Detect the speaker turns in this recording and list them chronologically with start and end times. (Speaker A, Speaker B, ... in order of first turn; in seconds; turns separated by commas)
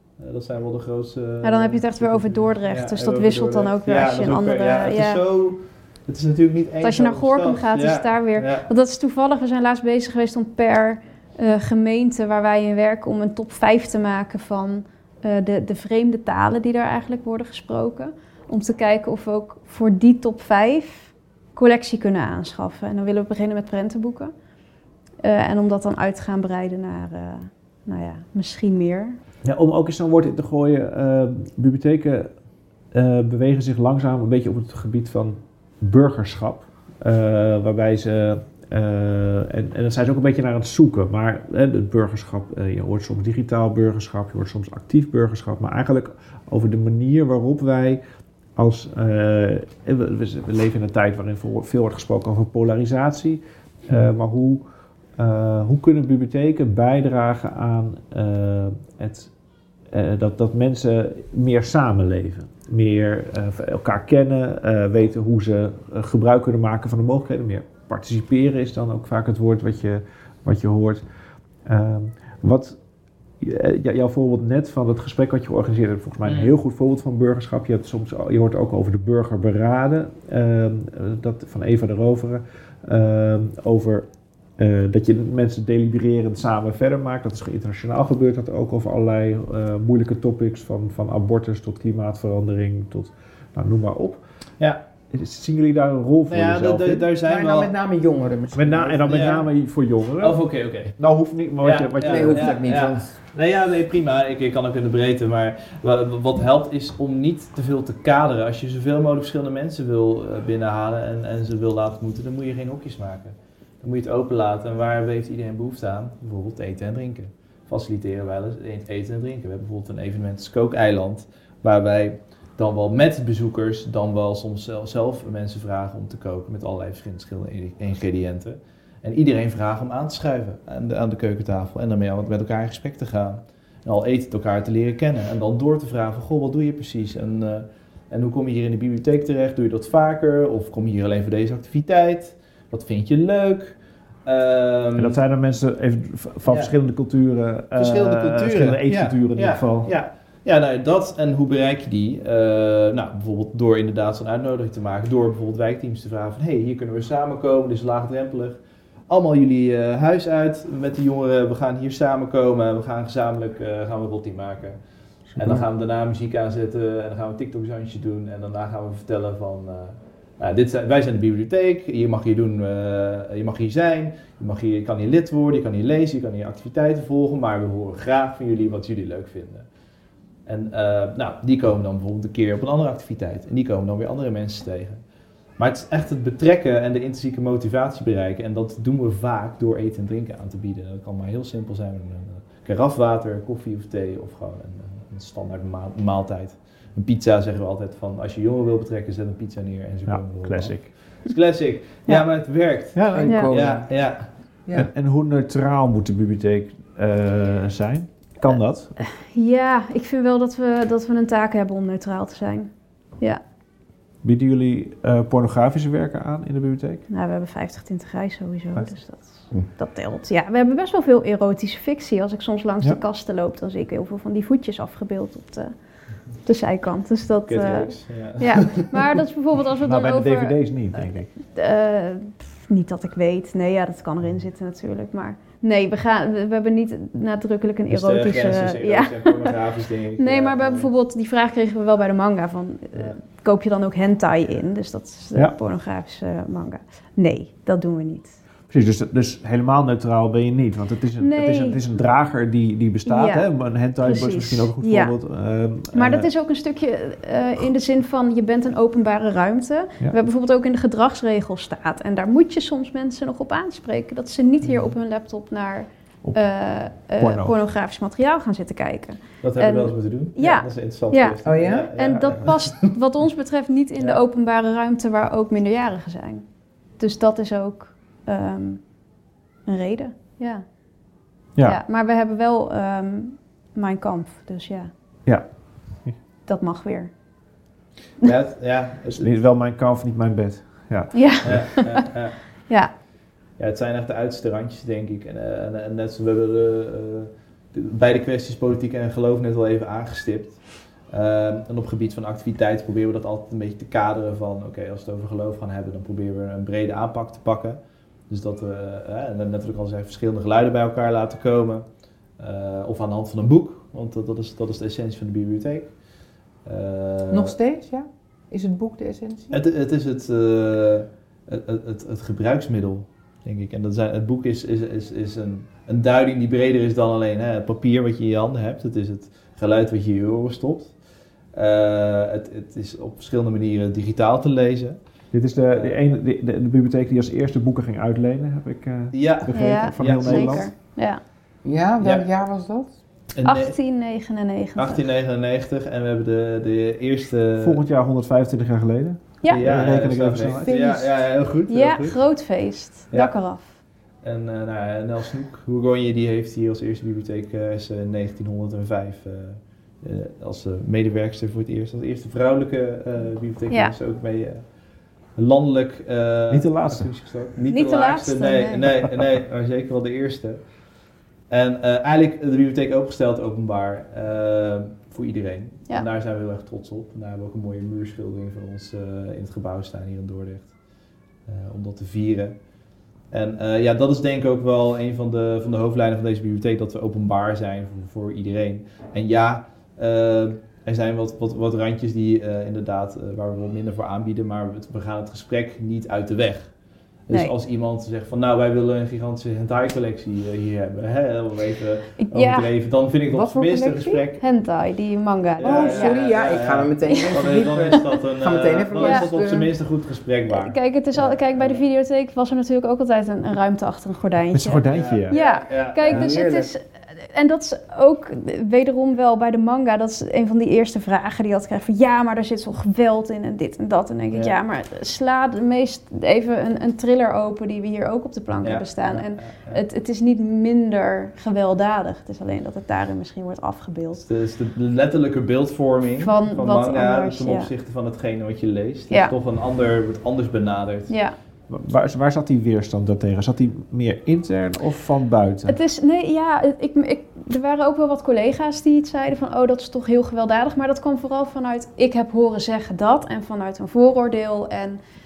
Speaker A: 0.2-8.7, Speaker B: 1.4-5.2, Speaker B: 6.8-24.3, Speaker B: 25.2-29.2, Speaker C: 29.4-32.4, Speaker C: 32.9-48.0, Speaker C: 48.6-54.6, Speaker C: 55.2-59.3, Speaker C: 59.9-71.0, Speaker C: 71.7-72.8, Speaker C: 73.4-84.1, Speaker A: 76.2-76.5, Speaker C: 84.6-94.2, Speaker C: 95.1-97.1, Speaker A: 96.3-97.7, Speaker D: 97.2-99.5, Speaker C: 98.5-102.9, Speaker A: 99.1-99.5, Speaker A: 100.2-101.0, Speaker A: 101.6-145.2, Speaker D: 102.0-103.2, Speaker C: 145.0-149.9, Speaker A: 146.5-146.7, Speaker A: 147.8-164.8, Speaker A: 165.4-179.7, Speaker A: 180.5-185.0, Speaker A: 185.6-204.3, Speaker C: 200.1-200.9, Speaker C: 202.9-203.3, Speaker D: 203.1-203.9, Speaker C: 204.7-209.0, Speaker B: 209.0-212.7, Speaker C: 214.2-217.0, Speaker B: 217.1-225.7, Speaker B: 226.4-230.6, Speaker A: 227.5-229.2, Speaker C: 229.8-231.3, Speaker B: 231.4-239.6, Speaker A: 237.9-240.9, Speaker B: 240.2-248.3, Speaker C: 248.7-256.3, Speaker B: 251.2-251.8, Speaker B: 253.1-255.1, Speaker B: 255.9-276.4, Speaker C: 267.2-267.6, Speaker A: 269.4-272.9, Speaker D: 271.4-271.9, Speaker B: 277.0-278.8, Speaker B: 279.7-280.6, Speaker B: 281.6-284.9, Speaker B: 286.5-287.1, Speaker A: 288.2-289.3, Speaker C: 289.1-291.8, Speaker B: 291.1-292.1, Speaker A: 291.4-292.4, Speaker A: 293.6-311.9, Speaker A: 312.4-315.9, Speaker A: 316.6-317.6, Speaker D: 317.3-319.6, Speaker A: 319.5-330.9, Speaker A: 331.5-335.0, Speaker C: 335.3-340.7, Speaker A: 335.5-336.0, Speaker A: 339.1-340.7, Speaker B: 339.5-341.2, Speaker D: 341.6-343.0, Speaker A: 342.0-342.3, Speaker A: 343.4-343.8, Speaker B: 343.4-345.0, Speaker A: 344.8-347.8, Speaker C: 347.6-350.7, Speaker B: 349.4-349.7, Speaker A: 349.5-352.2, Speaker D: 350.4-351.2, Speaker B: 351.7-353.8, Speaker A: 354.2-364.6, Speaker A: 365.4-370.6, Speaker C: 366.5-367.1, Speaker B: 367.7-368.9, Speaker A: 371.5-380.7, Speaker A: 381.5-382.6, Speaker A: 383.3-396.7, Speaker A: 397.3-404.4, Speaker B: 402.2-402.7, Speaker D: 403.3-404.2, Speaker B: 404.4-406.1, Speaker A: 405.6-411.8, Speaker D: 405.6-409.7, Speaker B: 409.0-409.2, Speaker B: 410.5-434.2, Speaker C: 414.5-415.3, Speaker A: 414.9-416.4, Speaker D: 416.1-416.7, Speaker A: 428.6-429.8, Speaker A: 434.2-441.1, Speaker B: 436.2-437.7, Speaker B: 441.1-441.4, Speaker C: 441.7-445.8, Speaker B: 445.7-455.0